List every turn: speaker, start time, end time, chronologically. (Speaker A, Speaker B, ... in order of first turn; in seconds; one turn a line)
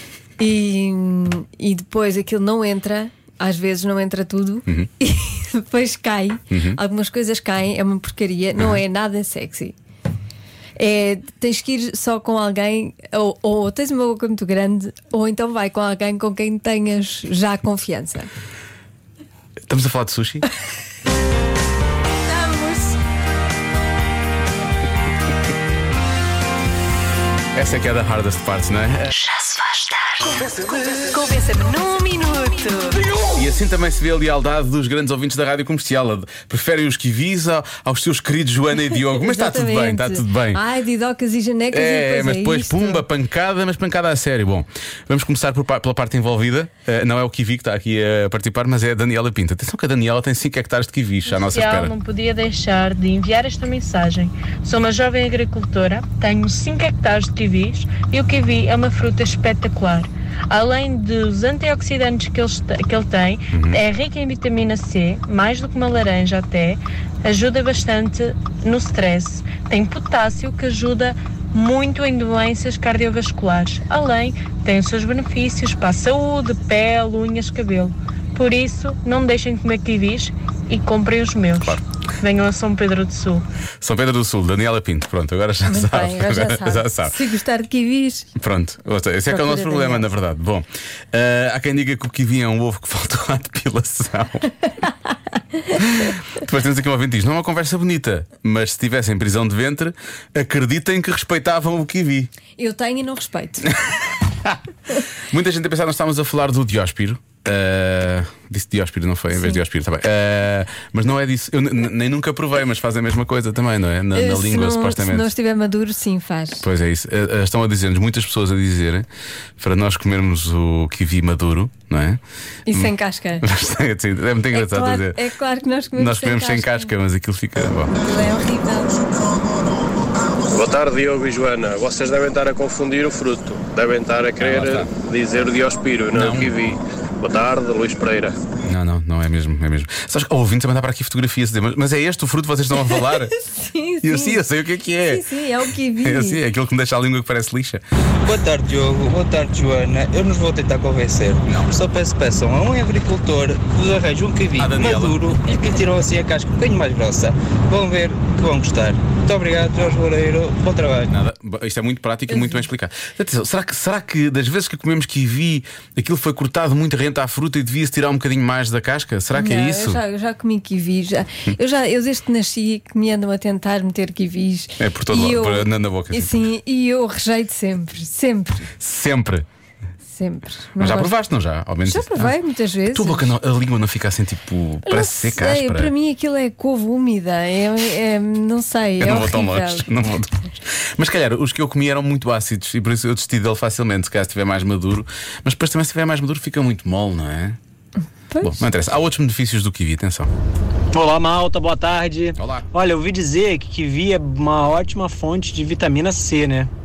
Speaker A: 0.4-9.8
Speaker B: 6.5-6.8
Speaker A: 10.8-18.3
Speaker B: 19.7-20.4
Speaker A: 22.3-22.9
Speaker B: 27.6-29.1
Speaker C: 29.2-30.3
Speaker C: 31.1-33.0
Speaker B: 33.3-40.6
Speaker A: 39.1-43.0
Speaker B: 41.7-51.9
Speaker D: 51.4-83.5
Speaker B: 63.5-63.8
Speaker B: 83.8-87.2
Speaker A: 85.7-88.3
Speaker B: 88.4-94.5
Speaker A: 89.3-90.1
Speaker B: 95.8-102.3
Speaker A: 102.6-103.7
Speaker B: 105.3-115.3
Speaker A: 109.3-109.6
Speaker A: 114.1-116.7
Speaker B: 116.6-119.1
Speaker B: 119.6-125.2
Speaker A: 122.7-123.5
Speaker A: 124.5-126.9
Speaker B: 125.9-128.0
Speaker A: 128.0-129.0
Speaker E: 130.5-138.4
Speaker B: 134.4-134.9
Speaker B: 136.1-136.5
Speaker B: 138.6-143.3
Speaker A: 142.8-144.4
Speaker B: 144.0-145.3
Speaker A: 145.1-146.4
Speaker B: 146.0-147.8
Speaker F: 148.2-161.1
Speaker B: 154.6-155.2
Speaker B: 161.1-170.0
Speaker A: 162.3-162.6
Speaker A: 169.3-178.7
Speaker B: 174.8-176.4
Speaker B: 178.8-179.5
Speaker A: 180.1-181.1
Speaker B: 180.8-182.3
Speaker A: 181.8-183.3
Speaker B: 182.9-185.9
Speaker A: 184.9-189.9
Speaker B: 189.0-197.6
Speaker A: 198.3-198.7
Speaker B: 198.4-200.3
Speaker G: 200.9-206.7
Speaker B: 202.4-202.7